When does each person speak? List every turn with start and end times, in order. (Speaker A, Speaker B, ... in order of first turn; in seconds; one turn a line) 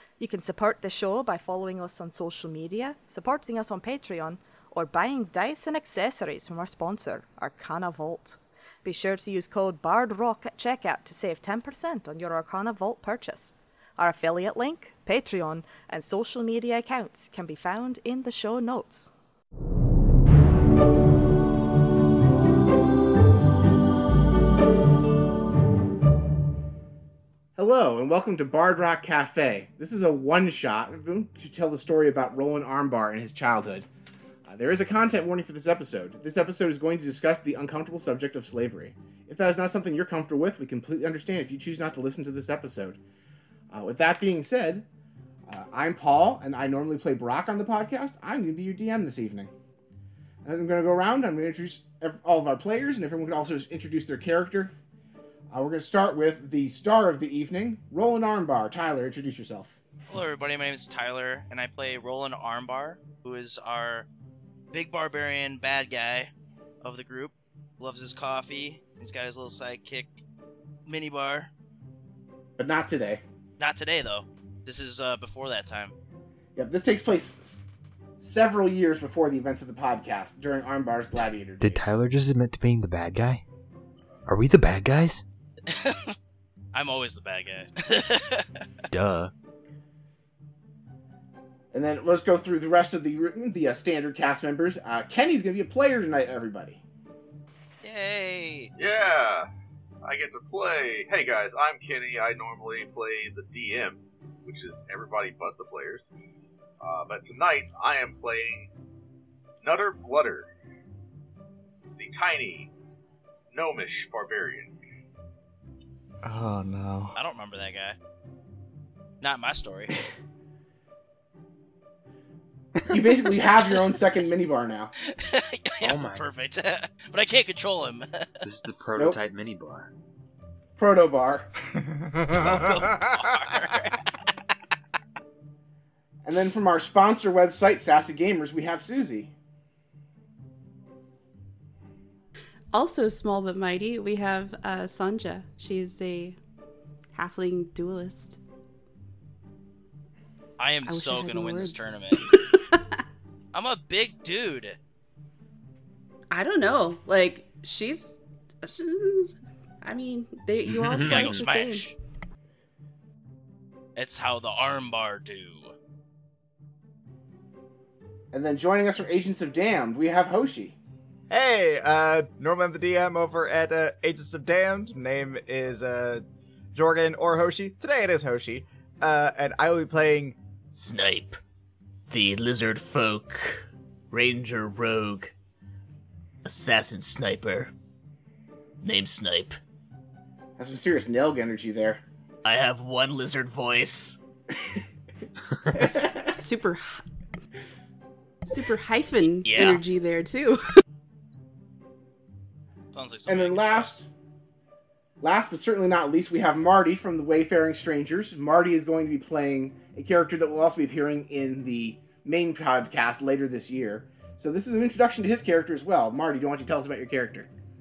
Speaker A: 0.2-19.1
Speaker B: 27.6-33.9
Speaker B: 34.5-43.0
Speaker B: 43.7-44.9
Speaker B: 45.5-49.5
Speaker B: 50.4-54.7
Speaker B: 55.5-59.8
Speaker C: 60.1-64.1
Speaker C: 64.7-70.2
Speaker C: 70.8-71.5
Speaker B: 72.6-73.2
Speaker C: 73.6-75.9
Speaker B: 76.5-77.6
Speaker B: 78.2-82.0
Speaker D: 81.6-83.4
Speaker D: 84.2-85.2
Speaker C: 85.7-86.1
Speaker C: 86.7-88.5
Speaker D: 88.9-89.3
Speaker B: 91.7-96.8
Speaker C: 97.8-98.7
Speaker E: 98.8-99.5
Speaker E: 100.0-106.1
Speaker E: 106.8-108.7
Speaker E: 109.6-110.5
Speaker E: 112.0-112.7
Speaker E: 113.5-114.7
Speaker F: 116.2-117.2
Speaker C: 117.2-118.0
Speaker C: 119.2-119.9
Speaker B: 122.9-124.9
Speaker C: 125.2-128.5
Speaker D: 125.8-126.2
Speaker D: 128.4-129.9
Speaker B: 130.8-131.5
Speaker F: 131.8-133.0
Speaker C: 132.3-134.0
Speaker B: 136.2-139.3
Speaker G: 142.7-146.4
Speaker G: 147.1-148.4
Speaker C: 150.6-152.3
Speaker G: 150.8-152.8
Speaker C: 153.5-154.8
Speaker G: 156.3-161.9
Speaker D: 160.7-161.4
Speaker C: 161.0-161.9
Speaker C: 163.9-165.7
Speaker B: 168.3-170.8
Speaker F: 171.3-180.4
Speaker H: 180.8-181.4
Speaker H: 182.1-185.3
Speaker H: 186.4-187.7
Speaker H: 188.8-189.6
Speaker B: 190.6-192.0
Speaker H: 192.4-194.2
Speaker B: 195.7-196.3
Speaker G: 196.2-197.0
Speaker G: 198.5-200.6
Speaker H: 199.4-199.8
Speaker C: 202.9-203.9
Speaker B: 203.2-204.1
Speaker B: 205.2-217.5